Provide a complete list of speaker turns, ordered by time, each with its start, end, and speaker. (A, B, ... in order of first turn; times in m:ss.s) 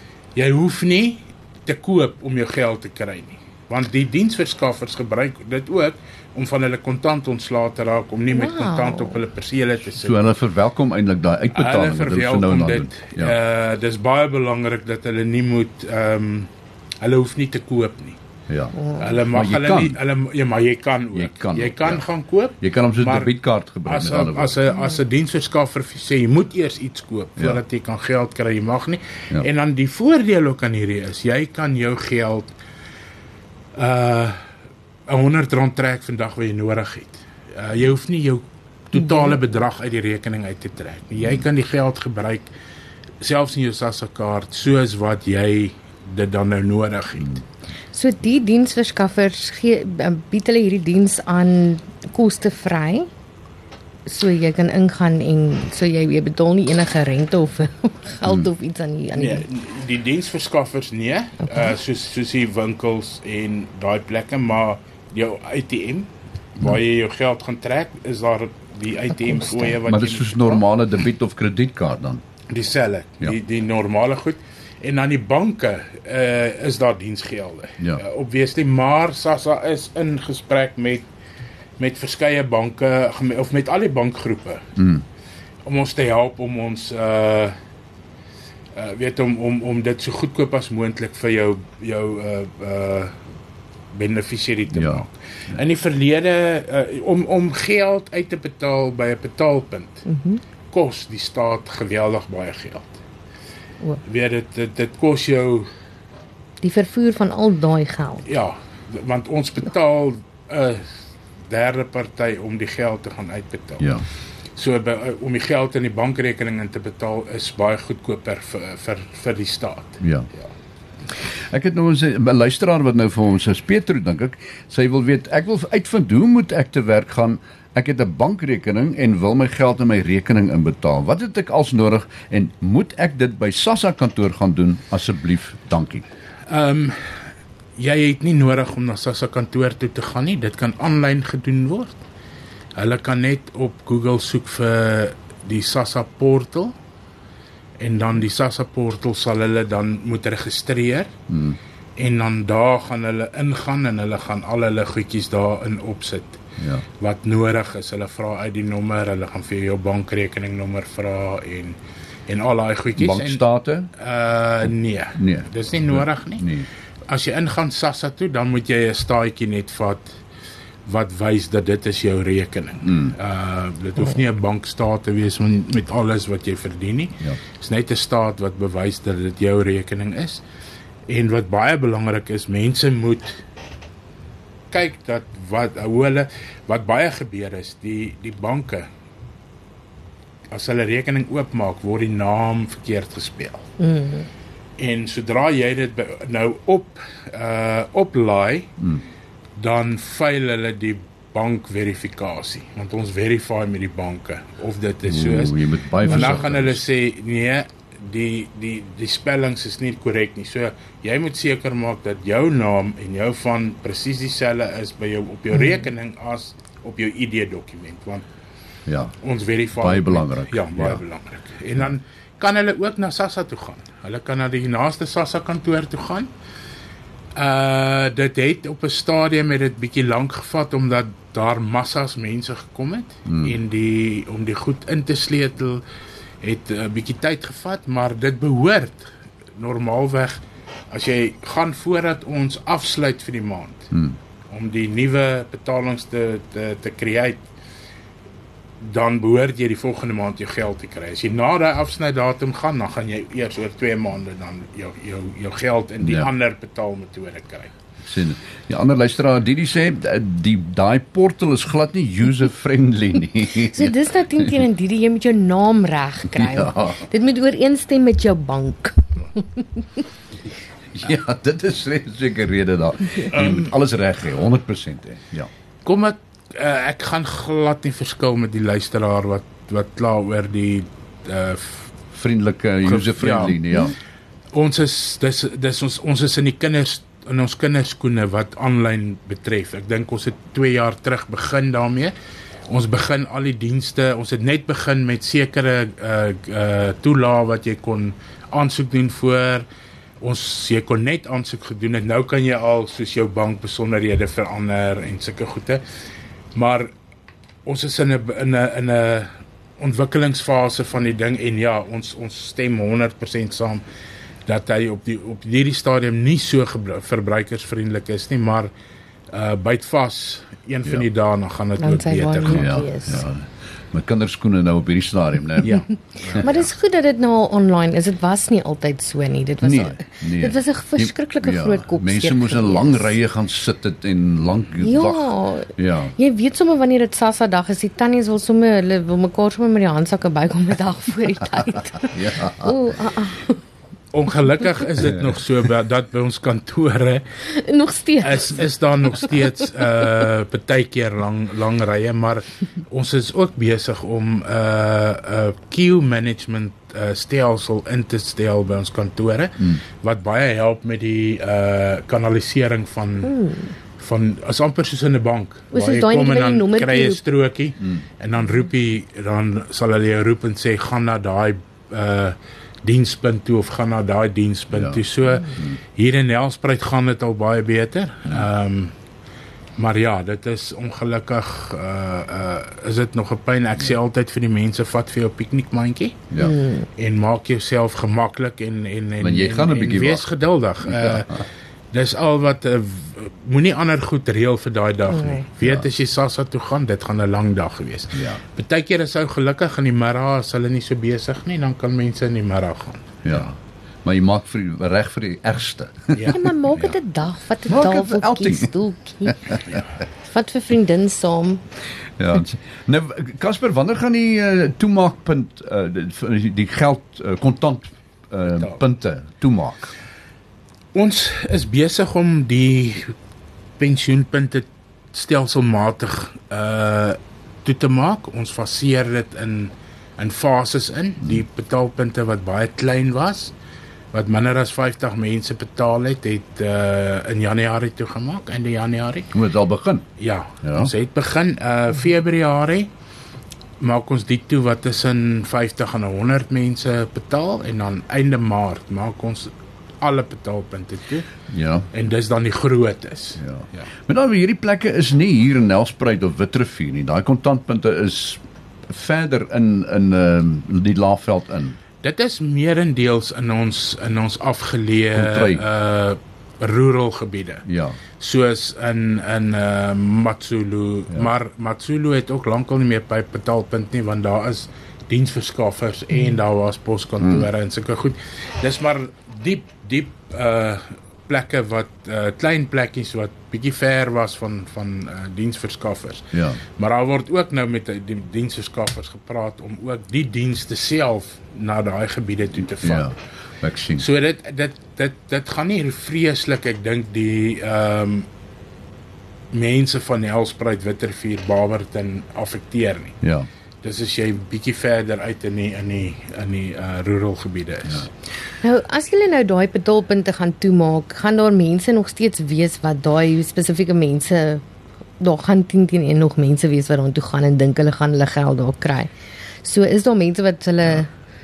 0:00.4-0:10.3 A
0:08.3-0:09.2 B
0:10.0-0:13.4 C
0:11.5-0:16.5 A
0:17.0-0:18.2 A
0:18.5-0:20.0 C
0:18.7-0:19.2 B
0:19.0-0:32.5 A
0:21.1-0:22.0 C
0:22.6-0:24.6 C
0:33.7-0:34.4 A
0:35.1-0:42.5 A
0:39.1-0:39.4 B
0:43.2-0:47.4 A
0:47.9-0:53.1 B
0:54.0-0:59.4 B
0:59.1-1:10.6 A
1:01.4-1:01.7 B
1:09.3-1:09.8 B
1:09.8-1:12.2 C
1:12.5-1:21.1 A
1:21.8-1:24.6 A
1:24.8-1:25.0 C
1:25.6-1:27.6 A
1:28.7-1:33.1 A
1:33.9-1:40.0 A
1:34.7-1:35.0 C
1:40.1-1:40.4 B
1:40.7-1:42.9 A
1:44.0-1:45.7 A
1:46.6-1:48.2 B
1:48.2-1:50.9 A
1:51.5-1:53.8 A
1:53.8-1:54.0 C
1:54.6-2:00.5 A
2:00.0-2:00.3 C
2:01.5-2:16.0 C
2:16.5-2:17.0 A
2:17.8-2:22.0 A
2:22.8-2:26.7 A
2:27.8-2:31.1 A
2:31.3-2:31.6 C
2:32.0-2:36.4 A
2:36.6-2:36.8 C
2:37.0-2:43.4 A
2:43.0-2:43.9 C
2:44.0-2:46.4 A
2:45.2-2:46.7 C
2:47.1-2:50.1 A
2:50.8-3:00.4 A
2:52.8-2:53.1 C
3:01.1-3:03.4 A
3:04.7-3:08.9 A
3:10.5-3:13.7 A
3:13.8-3:14.3 B
3:14.8-3:18.7 A
3:19.6-3:38.2 A
3:25.0-3:26.8 C
3:38.9-3:39.1 C
3:39.2-3:46.3 A
3:39.8-3:41.0 C
3:47.4-3:55.8 A
3:53.2-3:53.6 C
3:56.4-4:00.4 A
4:00.9-4:03.9 A
4:03.9-4:04.2 C
4:04.5-4:07.4 A
4:08.8-4:17.7 A
4:16.0-4:16.3 C
4:18.0-4:24.5 C
4:23.6-4:30.0 B
4:26.3-4:27.0 C
4:30.9-4:35.5 C
4:33.3-4:33.7 A
4:35.8-4:41.9 A
4:42.1-4:44.0 C
4:42.8-4:43.6 A
4:44.5-4:52.1 A
4:52.7-4:59.7 A
5:00.2-5:05.8 A
5:06.5-5:06.9 A
5:07.6-5:13.8 A
5:14.4-5:18.7 A
5:19.3-5:23.0 A
5:21.8-5:23.2 B
5:22.4-5:25.8 C
5:25.6-5:26.7 A
5:26.4-5:33.2 B
5:29.6-5:36.1 C
5:34.8-5:43.6 B
5:42.1-5:42.8 C
5:44.1-5:47.2 A
5:47.4-5:48.7 B
5:48.2-6:03.3 A
6:03.2-6:03.7 B
6:04.0-6:18.9 A
6:05.7-6:07.2 B
6:14.7-6:15.0 C
6:19.8-6:26.2 A
6:26.4-6:26.9 B
6:27.0-6:31.3 A
6:29.2-6:30.3 C
6:30.8-6:31.2 C
6:31.9-6:43.4 A
6:35.1-6:35.4 B
6:38.1-6:38.4 C
6:43.2-6:47.0 C
6:46.1-6:46.4 A
6:46.3-6:49.4 B
6:47.7-6:48.7 C
6:49.3-6:49.6 C
6:50.3-6:51.6 B
6:52.2-6:59.9 C
7:00.9-7:03.1 A
7:03.8-7:13.5 A
7:14.1-7:19.3 A
7:19.3-7:20.0 C
7:20.2-7:22.9 A
7:20.6-7:20.9 C
7:23.8-7:31.3 A
7:31.5-7:31.9 C
7:31.9-7:33.8 A
7:33.4-7:41.8 C
7:42.0-7:47.6 A
7:45.1-7:45.6 C
7:47.6-7:48.0 C
7:48.2-8:13.1 A
7:57.2-7:57.5 C
8:06.3-8:06.6 C
8:12.8-8:14.0 C
8:14.0-8:18.3 A
8:19.5-8:23.2 A
8:23.2-8:23.5 C
8:23.8-8:28.1 A
8:28.6-8:34.6 B
8:35.2-8:39.1 B
8:39.6-8:41.1 B